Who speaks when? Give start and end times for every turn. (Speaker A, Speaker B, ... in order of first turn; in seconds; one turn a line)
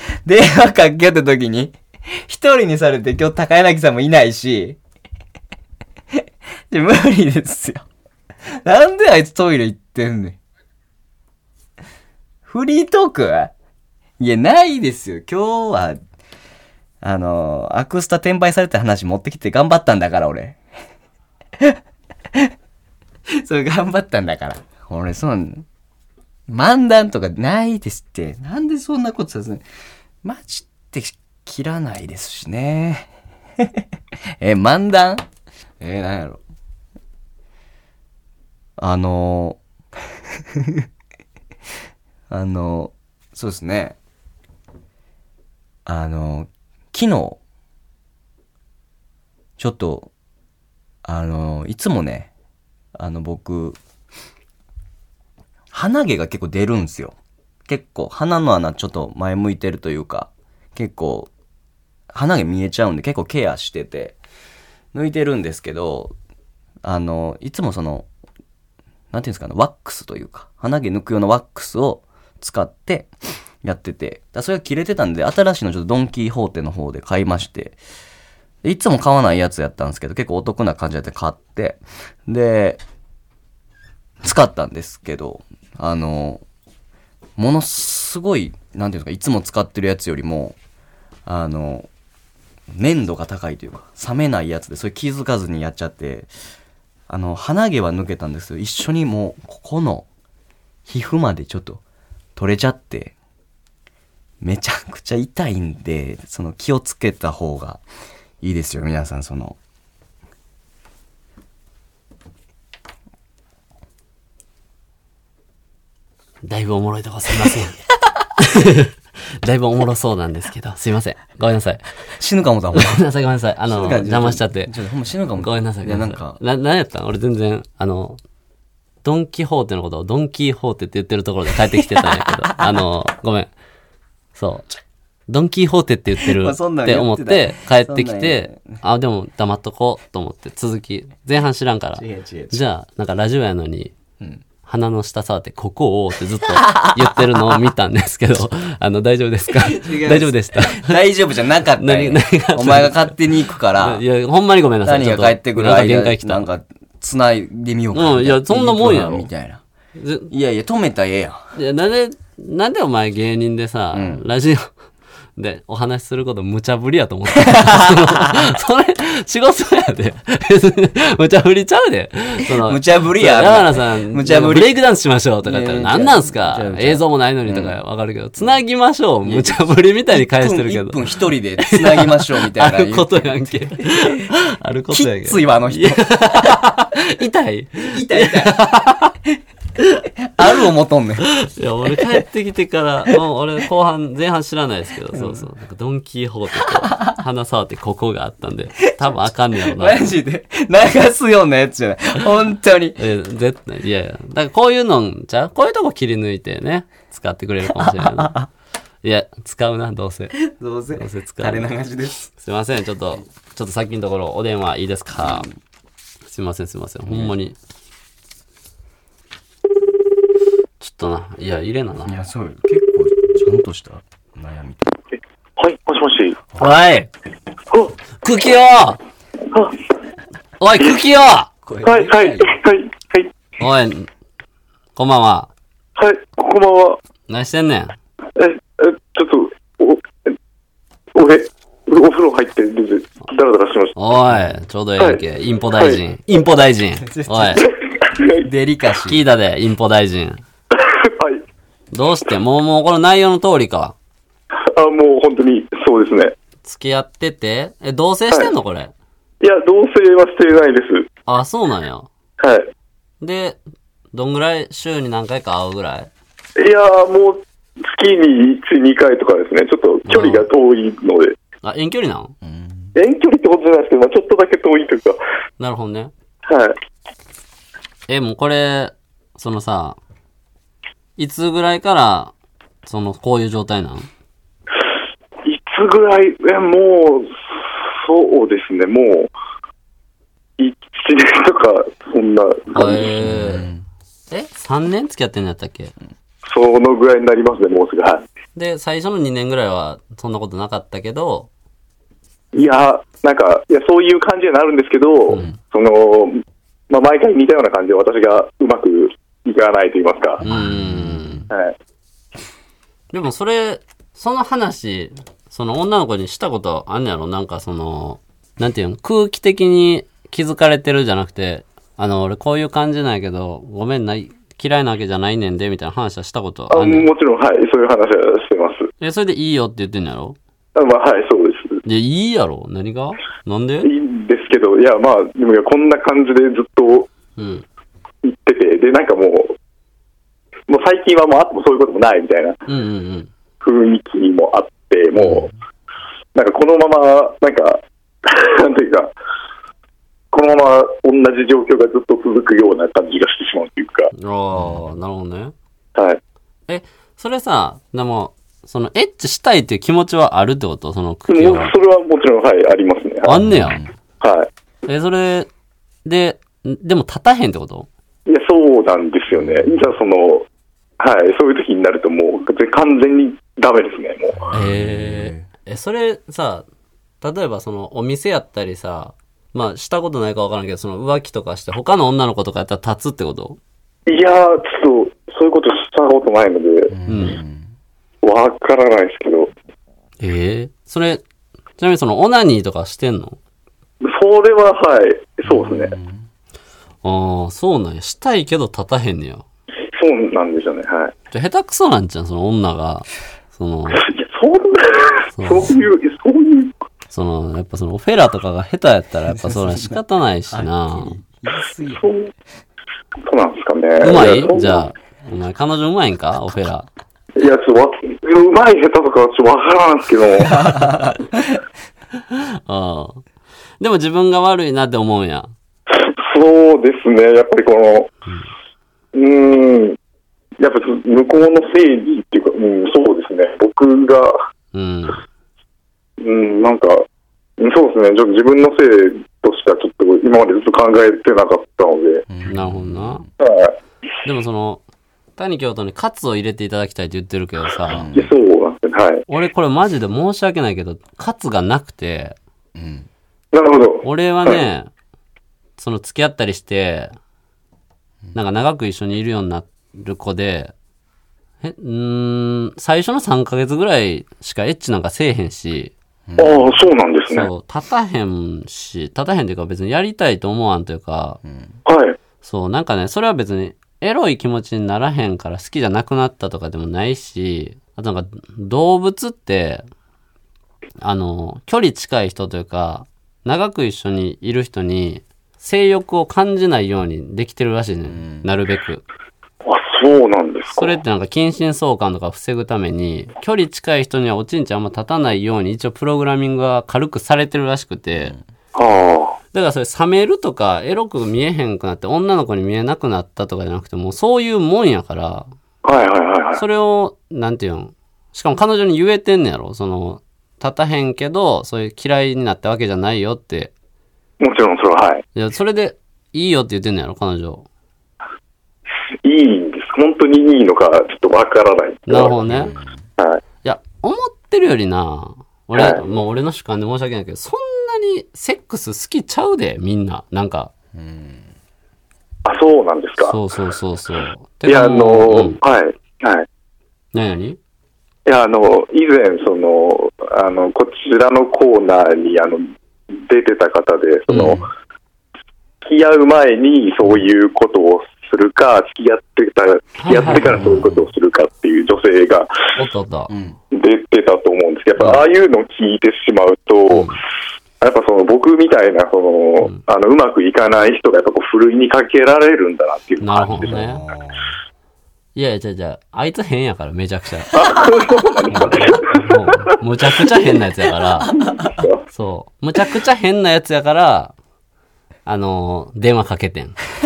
Speaker A: 0.2-4.8
Speaker A: 6.7-7.8
Speaker A: 8.6-10.4
Speaker A: 12.4-13.5
Speaker A: 14.2-16.0
Speaker A: 17.0-20.6
Speaker A: 23.4-25.7
Speaker A: 26.5-29.6
Speaker A: 30.2-33.9
Speaker A: 34.4-35.2
Speaker A: 35.8-36.4
Speaker A: 38.8-39.6
Speaker A: 40.3-40.9
Speaker A: 42.3-44.0
Speaker A: 45.9-47.4
Speaker A: 49.6-50.1
Speaker A: 51.0-52.3
Speaker A: 53.0-53.8
Speaker A: 55.7-57.2
Speaker A: 57.7-61.3
Speaker A: 62.1-64.2
Speaker A: 64.9-66.1
Speaker A: 66.8-68.1
Speaker A: 69.1-73.1
Speaker A: 73.6-77.8
Speaker A: 78.6-82.8
Speaker A: 84.2-86.4
Speaker A: 87.4-90.6
Speaker A: 91.3-91.9
Speaker A: 92.7-96.3
Speaker A: 97.1-100.1
Speaker A: 100.9-101.8
Speaker A: 102.4-103.1
Speaker A: 104.4-107.8
Speaker A: 108.4-109.6
Speaker B: 116.4-117.8
Speaker B: 118.4-121.9
Speaker A: 122.1-123.0
Speaker B: 122.8-124.8
Speaker A: 123.6-126.4
Speaker B: 125.4-128.2
Speaker B: 129.0-133.5
Speaker A: 131.7-132.7
Speaker B: 134.4-134.7
Speaker B: 135.3-143.9
Speaker A: 136.2-138.8
Speaker A: 142.0-142.6
Speaker B: 144.7-151.0
Speaker A: 146.6-147.1
Speaker A: 149.6-154.0
Speaker B: 151.8-153.1
Speaker B: 153.8-156.5
Speaker A: 154.8-159.6
Speaker B: 157.9-159.3
Speaker B: 160.0-160.3
Speaker A: 160.3-161.4
Speaker B: 161.6-164.7
Speaker A: 163.9-164.2
Speaker B: 165.4-189.2
Speaker A: 167.4-168.3
Speaker A: 172.6-174.8
Speaker A: 175.4-177.8
Speaker A: 179.2-184.3
Speaker A: 184.9-186.6
Speaker A: 187.9-188.5
Speaker A: 190.3-191.3
Speaker B: 191.2-200.1
Speaker A: 195.1-195.5
Speaker A: 196.7-197.2
Speaker A: 199.7-203.0
Speaker B: 203.0-208.4
Speaker A: 207.7-208.5
Speaker B: 209.0-215.5
Speaker A: 210.4-212.2
Speaker A: 215.2-215.5
Speaker B: 216.3-217.6
Speaker A: 217.1-217.4
Speaker B: 220.8-222.1
Speaker A: 222.1-225.0
Speaker C: 225.6-226.4
Speaker B: 226.6-227.1
Speaker B: 228.2-229.0
Speaker B: 230.6-231.5
Speaker A: 231.7-232.5
Speaker C: 231.8-233.3
Speaker B: 233.6-234.1
Speaker B: 235.0-235.5
Speaker C: 236.0-237.0
Speaker B: 237.3-237.9
Speaker C: 238.4-240.3
Speaker C: 241.2-243.9
Speaker B: 244.0-247.6
Speaker C: 245.8-246.0
Speaker A: 247.0-247.7
Speaker C: 247.6-248.5
Speaker A: 248.4-249.2
Speaker B: 249.1-250.4
Speaker C: 250.8-251.4
Speaker B: 251.9-253.9
Speaker C: 254.7-256.3
Speaker B: 256.6-258.9
Speaker C: 259.4-261.1
Speaker B: 261.3-262.1
Speaker C: 262.4-262.7
Speaker B: 263.2-263.6
Speaker B: 264.1-266.1
Speaker C: 266.6-271.4
Speaker B: 270.1-270.5
Speaker B: 271.6-272.3
Speaker A: 272.4-272.9
Speaker C: 272.9-275.2
Speaker B: 275.6-276.1
Speaker C: 276.5-276.8
Speaker B: 278.1-280.0
Speaker B: 281.2-282.3
Speaker B: 282.9-284.1
Speaker C: 285.4-289.3
Speaker C: 290.6-293.1
Speaker B: 292.7-293.7
Speaker A: 293.2-293.8
Speaker B: 294.3-295.9
Speaker C: 296.5-298.2
Speaker B: 298.6-301.5
Speaker C: 302.5-310.4
Speaker A: 310.4-311.5
Speaker B: 310.4-311.5
Speaker B: 313.1-327.1
Speaker C: 326.7-328.9
Speaker B: 329.0-330.4
Speaker C: 330.8-331.8
Speaker B: 331.9-333.9
Speaker C: 333.8-337.1
Speaker B: 337.4-337.6
Speaker C: 338.2-339.6
Speaker C: 340.7-342.6
Speaker B: 342.7-343.3
Speaker C: 343.6-345.5
Speaker A: 345.2-345.5
Speaker C: 346.3-349.1
Speaker C: 350.3-354.1
Speaker B: 354.1-355.5
Speaker A: 354.5-354.8
Speaker C: 355.9-356.2
Speaker B: 356.7-361.8
Speaker C: 361.3-363.4
Speaker B: 363.3-363.8
Speaker A: 363.4-363.9
Speaker C: 364.2-364.5
Speaker B: 364.9-365.5
Speaker B: 366.1-367.9
Speaker C: 368.3-370.5
Speaker A: 369.3-369.9
Speaker C: 371.0-374.5
Speaker A: 374.4-375.5
Speaker B: 374.5-376.6
Speaker B: 377.2-383.6
Speaker C: 384.1-386.9
Speaker A: 386.9-387.7
Speaker B: 387.1-387.4
Speaker C: 388.2-389.5
Speaker B: 390.2-391.2
Speaker B: 391.8-393.4
Speaker C: 394.0-395.9
Speaker A: 395.5-396.3
Speaker B: 397.0-399.4
Speaker C: 399.9-401.1
Speaker B: 401.3-404.1
Speaker C: 404.0-406.8
Speaker B: 405.4-405.8
Speaker B: 407.1-411.2
Speaker A: 409.3-410.0
Speaker A: 410.5-412.1
Speaker C: 411.9-412.3
Speaker C: 413.3-414.9
Speaker B: 414.0-416.9
Speaker C: 417.4-420.6
Speaker A: 420.5-421.6
Speaker B: 422.3-423.2
Speaker B: 423.8-425.5
Speaker C: 425.9-428.1
Speaker C: 429.1-430.0
Speaker C: 430.6-434.4
Speaker B: 434.7-435.2
Speaker C: 436.2-437.1
Speaker C: 437.6-442.2
Speaker A: 442.3-443.3
Speaker B: 442.5-443.2
Speaker C: 443.4-443.7
Speaker B: 444.2-444.8
Speaker B: 445.4-448.1
Speaker A: 447.9-448.3
Speaker C: 448.1-449.2
Speaker B: 449.3-452.4
Speaker A: 452.8-453.1
Speaker C: 453.5-454.6
Speaker B: 454.0-454.9
Speaker B: 455.8-457.1
Speaker B: 458.3-460.7
Speaker B: 461.6-465.9
Speaker A: 466.3-466.8
Speaker C: 466.4-467.5
Speaker B: 467.3-471.4
Speaker A: 471.4-471.8
Speaker C: 471.9-472.2
Speaker B: 472.4-479.8
Speaker B: 481.0-489.0
Speaker A: 488.1-488.5
Speaker C: 489.6-491.0
Speaker B: 490.7-498.4
Speaker C: 498.8-499.4
Speaker B: 499.5-505.5
Speaker C: 505.8-506.6
Speaker B: 506.6-513.7
Speaker C: 514.4-515.2
Speaker B: 515.4-517.7
Speaker C: 519.2-522.4
Speaker B: 522.1-522.8
Speaker A: 522.5-523.0
Speaker B: 523.6-530.7
Speaker C: 525.7-526.0
Speaker A: 530.9-531.5
Speaker C: 532.5-533.4
Speaker B: 533.2-535.6
Speaker C: 534.7-536.5
Speaker B: 537.1-537.6
Speaker C: 538.3-544.7
Speaker B: 544.3-544.5
Speaker A: 544.3-544.7
Speaker C: 545.8-552.8
Speaker B: 550.0-550.8
Speaker A: 550.3-550.9
Speaker B: 552.8-553.3
Speaker A: 553.3-553.6
Speaker C: 553.7-557.2
Speaker B: 555.0-555.2
Speaker B: 556.9-557.2
Speaker C: 557.8-563.8
Speaker B: 563.2-564.0
Speaker A: 563.6-564.6
Speaker B: 565.4-567.5
Speaker C: 567.5-569.8
Speaker A: 568.5-568.9
Speaker B: 568.5-571.3
Speaker C: 571.4-572.0
Speaker B: 572.1-574.3
Speaker B: 575.3-576.8